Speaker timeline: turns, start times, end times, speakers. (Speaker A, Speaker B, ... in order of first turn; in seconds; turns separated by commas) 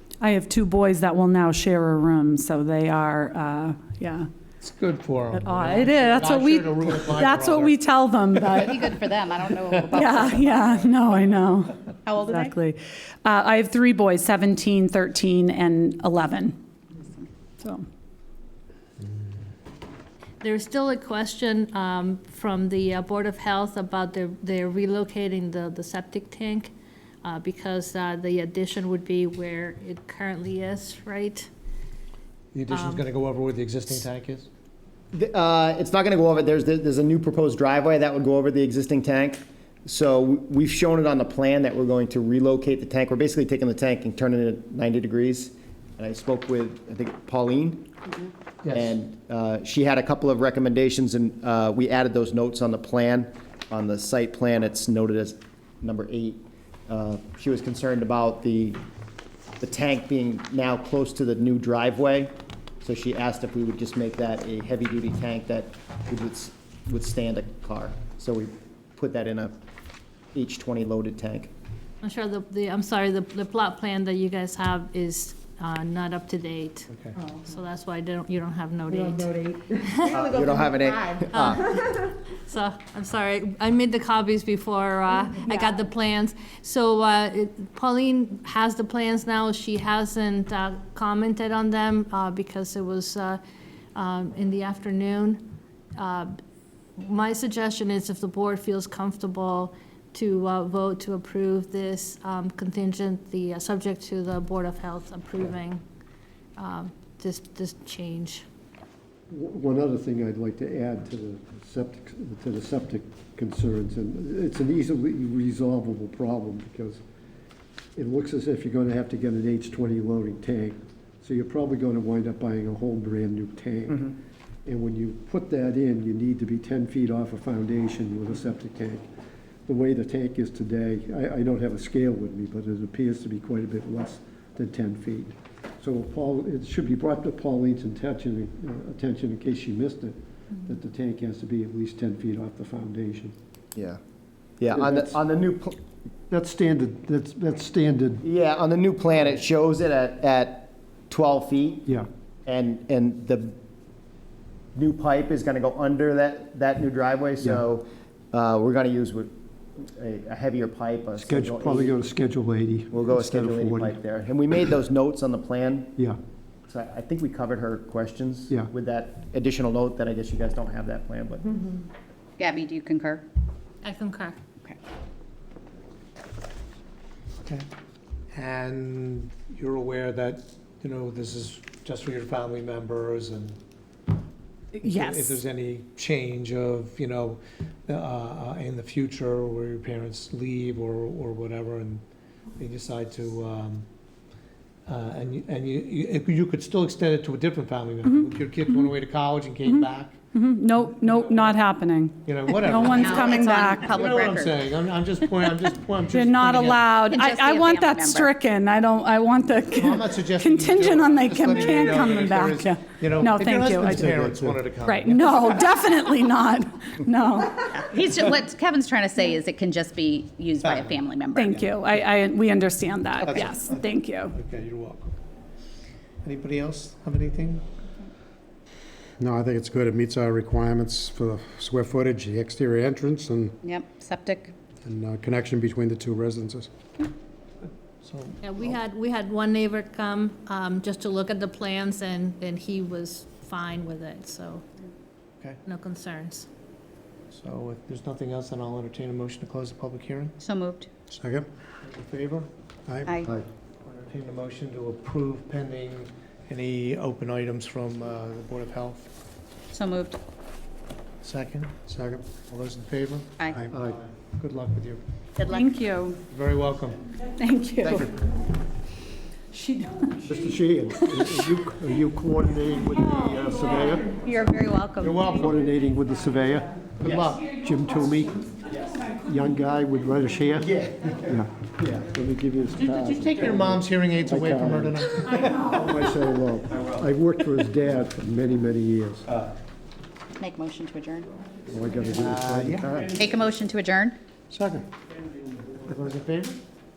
Speaker A: 0.2-4.3, Speaker B: 4.6-7.8, Speaker A: 5.3-8.8, Speaker C: 8.5-10.9, Speaker A: 9.9-16.6, Speaker C: 12.1-12.5, Speaker D: 20.4-26.7, Speaker D: 27.2-31.5, Speaker B: 32.5-34.5, Speaker D: 32.7-33.0, Speaker E: 35.1-47.9, Speaker B: 48.6-49.0, Speaker E: 48.7-58.8, Speaker E: 59.6-69.6, Speaker E: 70.3-71.5, Speaker D: 72.0-80.2, Speaker E: 80.0-81.8, Speaker D: 81.3-81.9, Speaker D: 82.5-93.4, Speaker D: 93.9-95.4, Speaker D: 96.0-96.3, Speaker D: 97.0-105.8, Speaker D: 106.6-108.4, Speaker F: 109.3-117.0, Speaker F: 117.9-124.1, Speaker F: 124.7-129.0, Speaker F: 129.7-143.3, Speaker E: 144.6-145.8, Speaker F: 144.7-145.2, Speaker F: 146.3-148.2, Speaker E: 148.2-151.9, Speaker E: 152.4-153.6, Speaker E: 154.7-161.9, Speaker F: 161.2-164.0, Speaker E: 162.9-165.9, Speaker E: 166.7-171.6, Speaker C: 172.4-173.2, Speaker D: 173.8-174.4, Speaker B: 178.3-183.6, Speaker B: 184.8-192.0, Speaker A: 184.8-185.4, Speaker B: 192.6-193.8, Speaker B: 194.9-200.2, Speaker A: 198.0-198.9, Speaker A: 200.3-204.0, Speaker B: 200.9-201.6, Speaker B: 202.2-206.9, Speaker C: 202.6-204.7, Speaker A: 206.1-217.6, Speaker C: 207.0-208.3, Speaker B: 209.7-215.4, Speaker F: 213.8-214.6, Speaker C: 217.7-221.7, Speaker B: 220.6-221.0, Speaker A: 221.3-224.3, Speaker C: 223.2-223.5, Speaker B: 223.2-225.1, Speaker B: 226.2-227.7, Speaker G: 229.2-233.5, Speaker C: 233.6-234.5, Speaker G: 234.8-236.7, Speaker B: 238.0-238.7, Speaker D: 238.4-244.6, Speaker D: 245.6-246.5, Speaker B: 247.3-250.3, Speaker C: 250.4-250.9, Speaker G: 251.1-251.4, Speaker B: 251.8-252.5, Speaker B: 253.9-259.1, Speaker C: 259.7-260.2, Speaker B: 261.2-261.8, Speaker G: 261.9-262.3, Speaker B: 262.3-265.0, Speaker F: 263.7-264.0, Speaker C: 265.4-266.1, Speaker A: 265.5-266.2, Speaker B: 266.3-267.0, Speaker C: 267.4-268.1, Speaker B: 267.8-268.1, Speaker A: 269.5-270.1, Speaker F: 270.2-274.1, Speaker C: 274.2-275.3, Speaker B: 275.0-275.5, Speaker F: 275.3-276.9, Speaker B: 277.0-277.5, Speaker E: 277.0-277.3, Speaker F: 277.5-278.5, Speaker F: 279.1-289.3, Speaker E: 280.7-281.1, Speaker B: 282.8-285.5, Speaker C: 290.4-291.3, Speaker F: 291.7-293.2, Speaker B: 292.2-293.1, Speaker C: 293.1-294.2, Speaker G: 294.5-294.8, Speaker B: 295.8-296.6